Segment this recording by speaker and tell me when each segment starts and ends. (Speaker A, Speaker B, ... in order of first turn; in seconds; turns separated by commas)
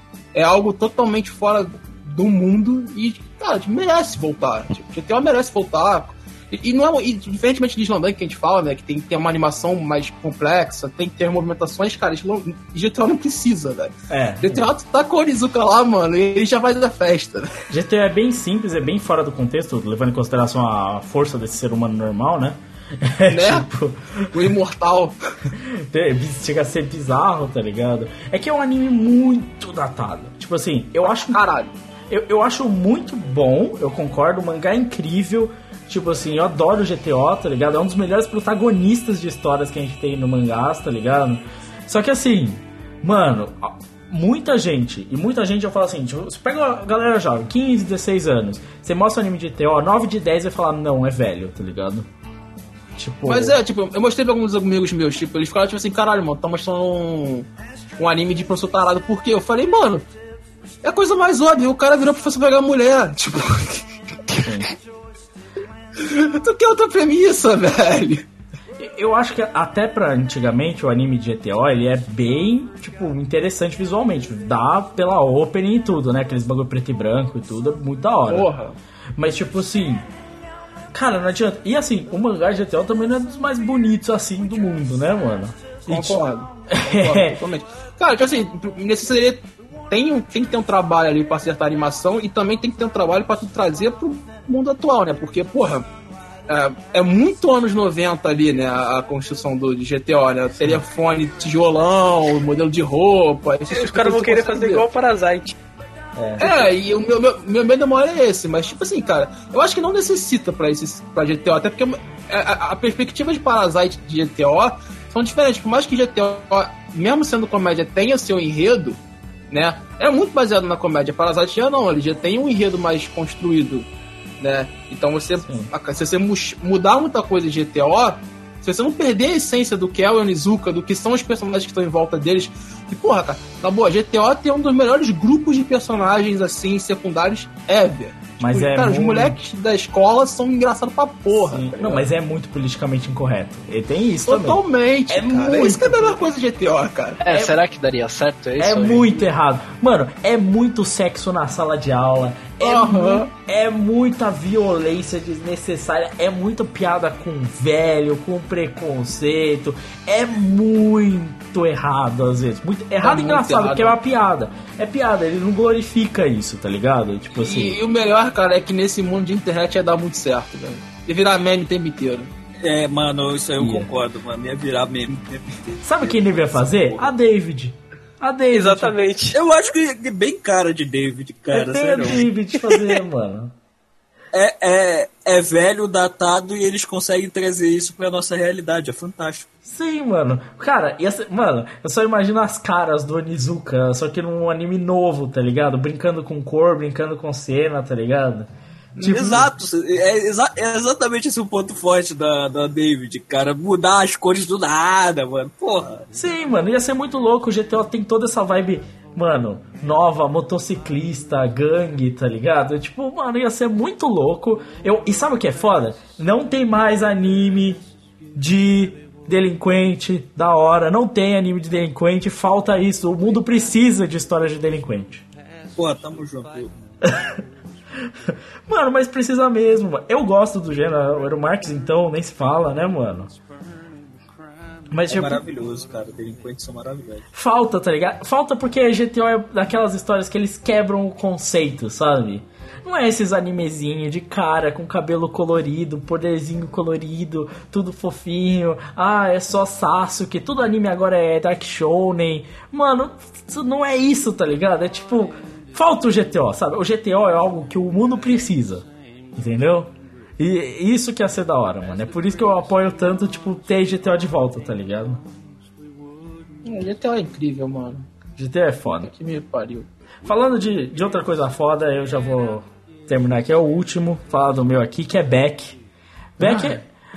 Speaker A: 0.3-17.5, Speaker B: 14.1-14.7, Speaker B: 17.7-24.6, Speaker A: 23.3-23.7, Speaker A: 24.3-25.2, Speaker B: 25.6-31.4, Speaker A: 31.2-31.7, Speaker B: 32.1-52.1, Speaker B: 53.0-53.6, Speaker A: 53.2-60.1, Speaker A: 60.8-64.5, Speaker B: 64.4-64.7, Speaker A: 66.0-68.3, Speaker B: 68.8-78.5, Speaker A: 78.3-78.8, Speaker B: 79.2-80.1, Speaker B: 80.9-86.2, Speaker A: 85.9-95.9, Speaker B: 86.7-87.4, Speaker A: 96.5-104.8, Speaker C: 103.7-105.6, Speaker B: 106.2-106.7, Speaker A: 106.4-119.0, Speaker A: 119.5-123.9, Speaker A: 124.4-142.1, Speaker B: 125.5-125.7, Speaker B: 138.4-139.4, Speaker B: 141.5-146.2, Speaker A: 144.3-147.2, Speaker D: 147.2-149.2, Speaker B: 147.3-147.6, Speaker B: 148.6-167.8, Speaker A: 152.6-153.3, Speaker A: 163.0-163.9, Speaker A: 167.4-172.3, Speaker E: 172.6-177.1, Speaker B: 173.6-173.9, Speaker B: 175.8-178.9, Speaker C: 178.5-179.4, Speaker E: 179.3-182.2, Speaker B: 181.5-183.5, Speaker E: 184.3-189.5, Speaker B: 189.6-198.5, Speaker E: 199.0-206.1, Speaker B: 199.0-199.5, Speaker B: 206.1-217.8, Speaker B: 218.3-225.2, Speaker E: 225.8-226.7, Speaker B: 227.0-227.4, Speaker B: 228.1-233.3, Speaker B: 234.9-235.4, Speaker E: 235.1-237.3, Speaker B: 237.3-265.2, Speaker A: 266.6-268.1, Speaker B: 268.4-269.1, Speaker A: 269.0-269.9, Speaker B: 270.2-275.8, Speaker B: 276.4-276.8, Speaker A: 276.4-276.8